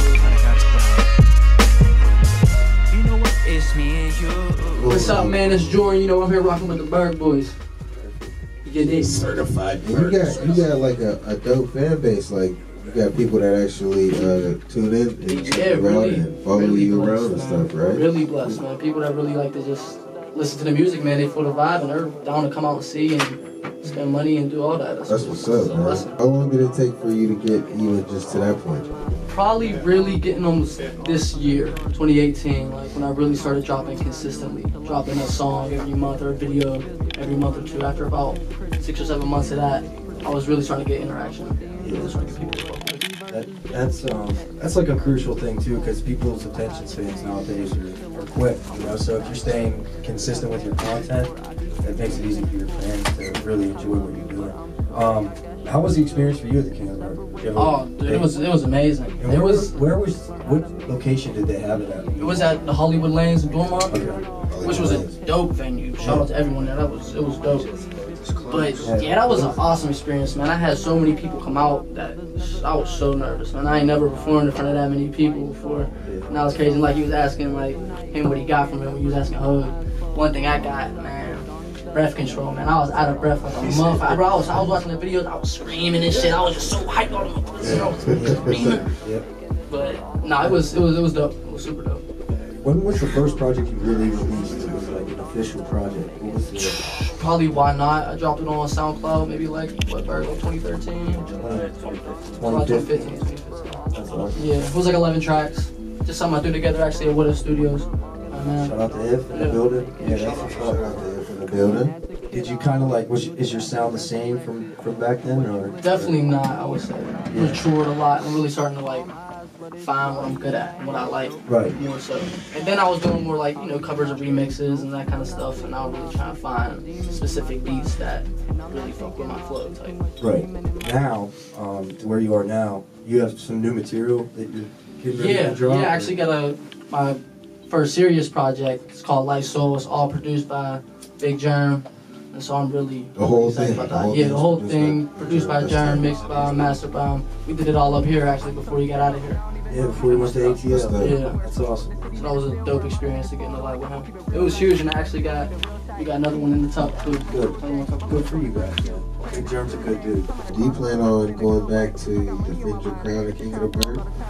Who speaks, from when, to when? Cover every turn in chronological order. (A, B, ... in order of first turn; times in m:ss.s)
0:00.2-0:01.1 A
0:02.9-0:05.0 A
0:04.7-0:05.4 B
0:04.8-0:07.6 C
0:08.6-0:09.3 C
0:08.8-0:10.7 D
0:09.8-0:18.6 B
0:15.3-0:26.1 C
0:25.1-0:28.9 B
0:29.3-0:43.0 C
0:41.8-0:42.5 E
0:43.3-0:58.3 E
0:57.6-0:59.7 C
0:59.2-1:02.6 E
1:02.2-1:07.6 C
1:03.9-1:05.0 E
1:04.5-1:05.1 B
1:06.0-1:06.3 E
1:07.5-1:09.0 D
1:08.5-1:28.9 C
1:08.8-1:09.6 E
1:16.0-1:16.3 E
1:27.6-1:28.8 B
1:28.0-1:29.2 E
1:29.7-1:32.0 C
1:32.6-1:36.8 E
1:36.5-1:41.4 C
1:41.3-1:42.9 E
1:42.4-1:43.8 C
1:43.9-1:44.4 E
1:44.3-1:48.7 C
1:48.6-1:50.9 E
1:49.3-1:49.6 C
1:50.0-1:50.6 D
1:50.5-1:51.9 B
1:52.3-1:56.1 E
1:55.8-1:59.1 C
1:57.3-1:57.6 E
1:59.8-2:10.0 C
2:01.4-2:01.7 E
2:10.2-2:16.2 E
2:15.1-2:31.4 C
2:23.2-2:26.2 B
2:29.7-2:32.0 E
2:30.6-2:31.2 B
2:32.1-2:38.3 C
2:37.3-2:40.3 E
2:40.5-2:44.0 B